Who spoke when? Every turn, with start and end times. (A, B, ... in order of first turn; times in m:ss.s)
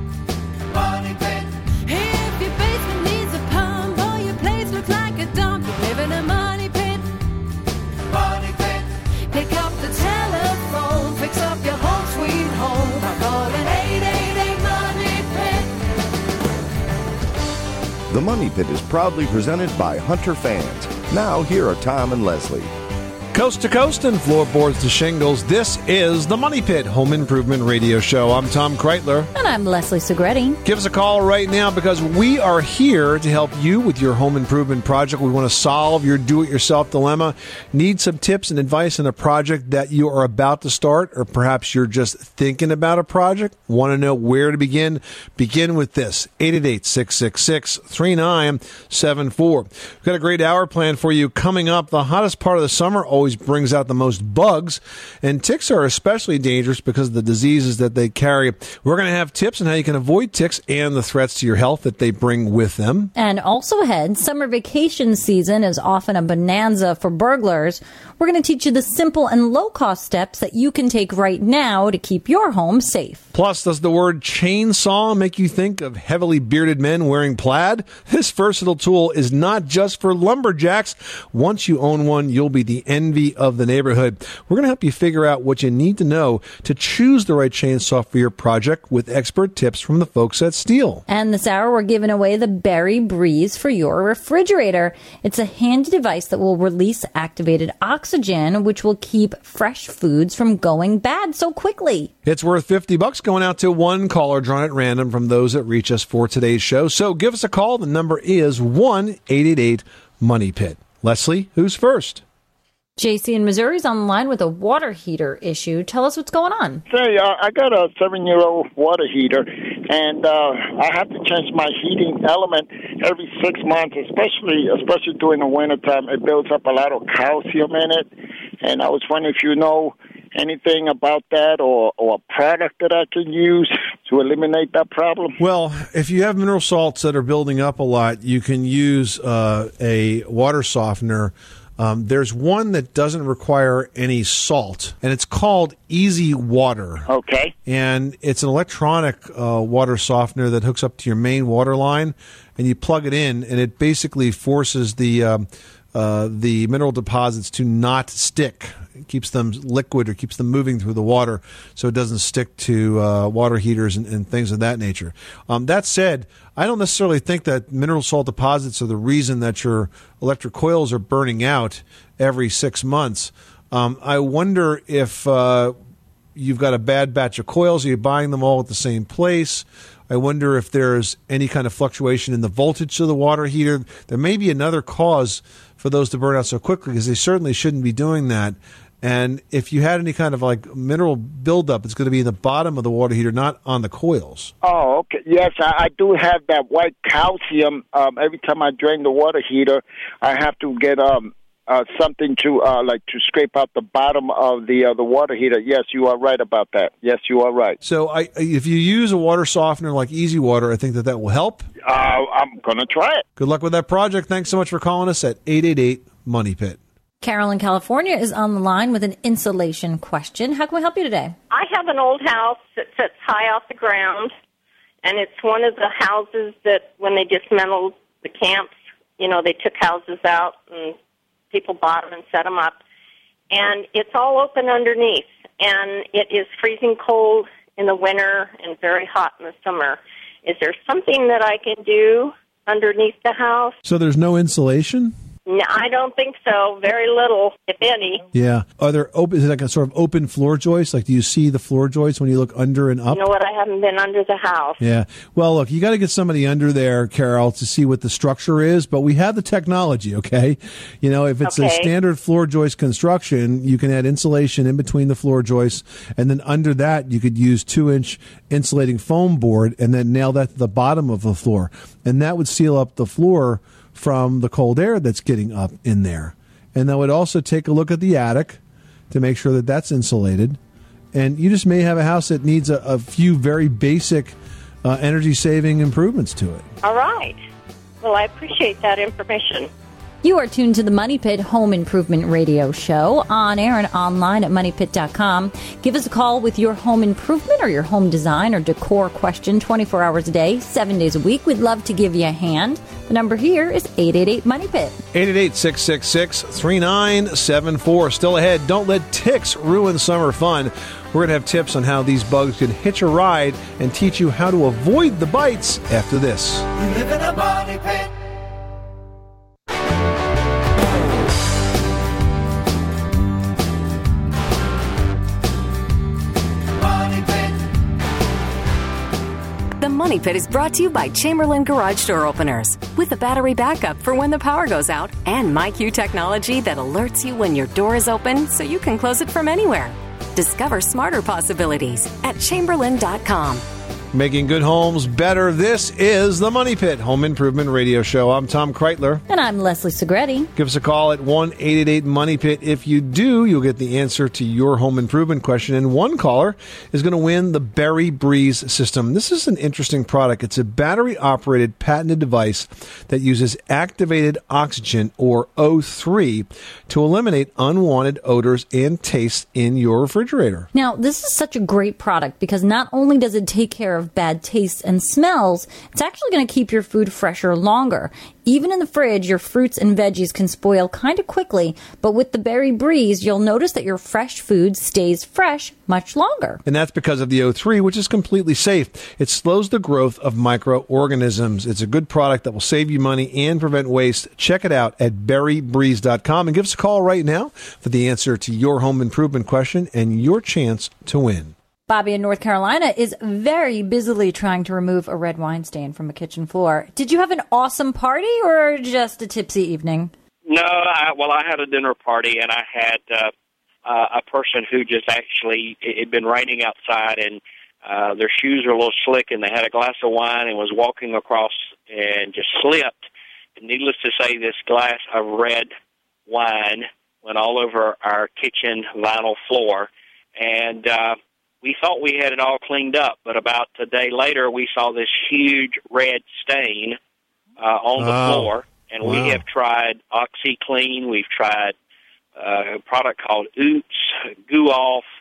0:00.7-0:07.1 A
0:08.0-0:15.7 A
0:18.1-0:22.7 B
0:23.3-0:29.3 C
0:29.3-0:30.6 D
0:30.6-1:03.1 C
1:03.2-1:13.2 D
1:13.3-1:31.0 C
1:31.1-1:42.1 D
1:42.2-1:52.2 C
1:53.0-1:56.8 D
1:56.9-2:08.1 E
2:08.6-2:15.4 E
2:15.4-2:27.1 C
2:27.1-2:27.5 E
2:27.6-2:55.7 C
2:56.3-3:14.5 C
3:14.6-3:27.8 E
3:27.8-3:31.7 C
3:31.8-3:33.2 E
3:33.4-3:36.8 C
3:37.2-3:41.4 D
3:41.5-3:44.3 F
3:45.0-3:51.0 F
3:51.5-3:52.8 F
3:53.5-4:03.8 F
4:03.8-4:05.1 C
4:05.5-4:08.2 F
4:08.3-4:13.2 C
4:13.1-4:14.8 F
4:14.8-4:40.6 C
4:21.4-4:21.9 F
4:41.1-4:46.6 C
4:46.8-4:47.4 F
4:48.0-4:49.7 F
4:50.2-5:05.0 D
5:05.1-5:16.7 C
5:16.8-5:18.1 A
5:26.9-5:27.3 A
5:29.8-5:43.6 G
5:44.1-5:49.2 C
5:49.3-5:50.5 D
5:50.6-6:10.7 C
6:10.7-6:26.6 D
6:26.6-6:41.5 C
6:41.9-6:50.1 D
6:50.4-6:53.3 H
6:53.8-7:03.0 H
7:03.6-7:05.7 H
7:06.3-7:17.0 H
7:17.6-7:21.7 H
7:18.0-7:19.4 C
7:22.4-7:25.0 H